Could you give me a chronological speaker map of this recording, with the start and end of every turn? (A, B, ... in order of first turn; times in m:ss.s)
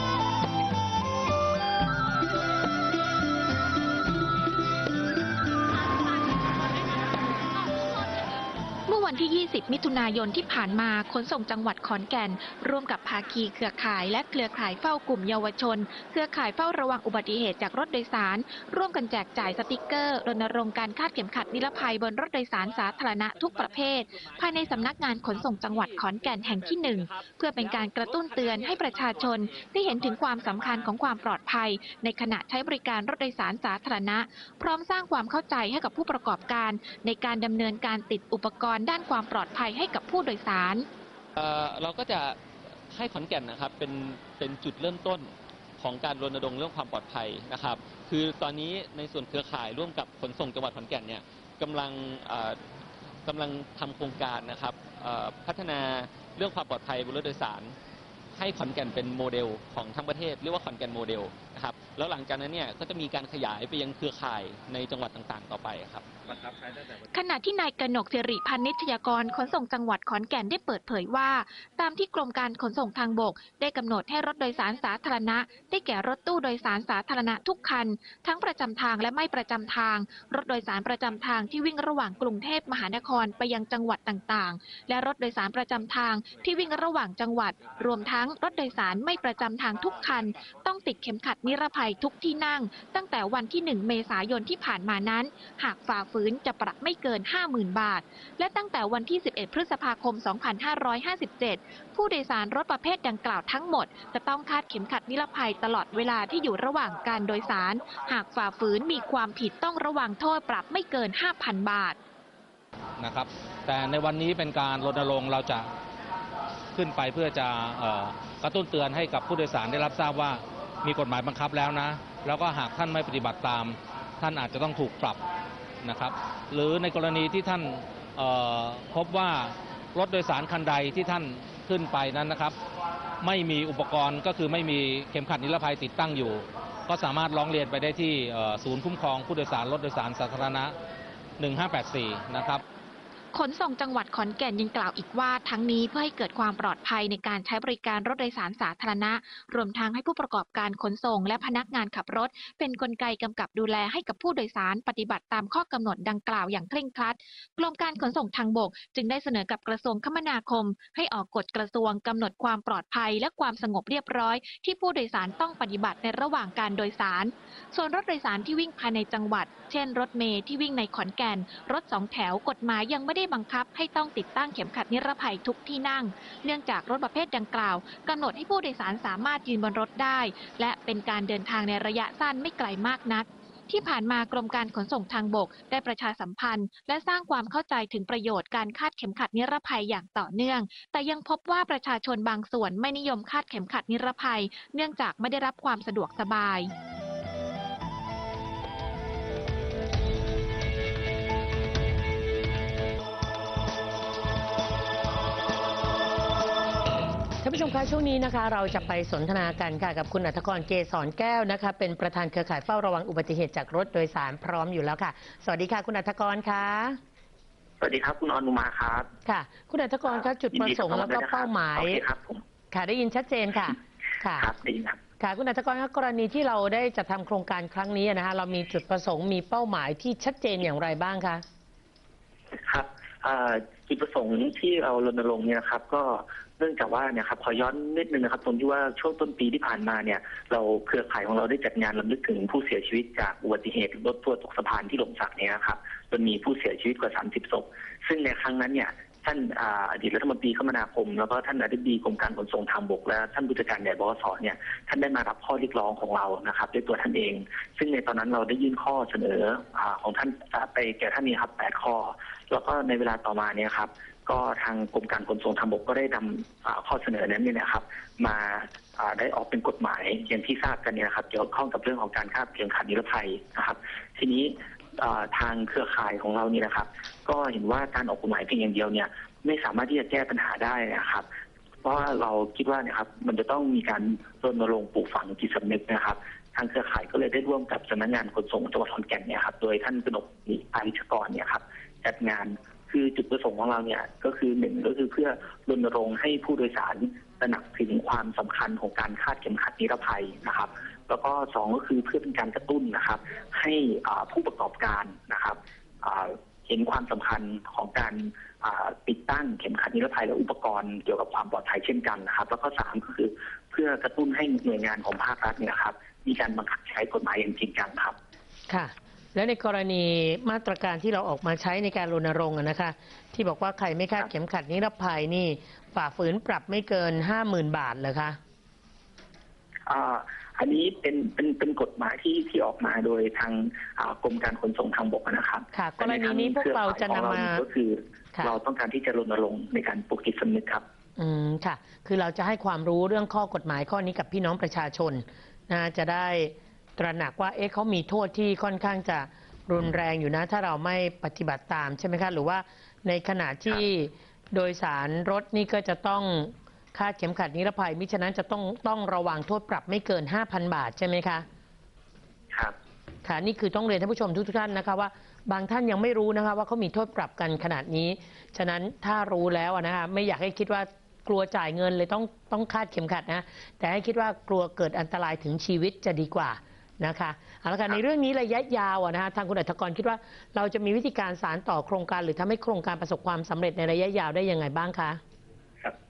0:08.9-0:40.9 A
0:41.4-0:42.4 B
0:42.9-0:52.6 B
0:53.2-0:57.8 B
0:58.4-1:06.5 B
1:07.1-1:52.0 A
1:53.0-1:55.7 C
1:56.8-2:05.2 C
2:05.8-2:12.6 C
2:13.2-2:20.7 C
2:21.4-2:22.6 C
2:23.3-3:16.7 A
3:27.4-3:37.0 D
3:37.8-3:39.1 E
3:39.3-3:42.0 D
3:40.1-3:42.4 E
3:42.7-3:44.5 D
3:44.4-3:45.0 E
3:45.2-3:51.4 D
3:52.7-4:41.3 E
4:41.8-5:18.2 E
5:18.7-5:28.4 D
5:29.9-5:40.8 E
5:35.7-5:37.6 D
5:41.2-6:01.4 D
6:03.2-6:25.2 D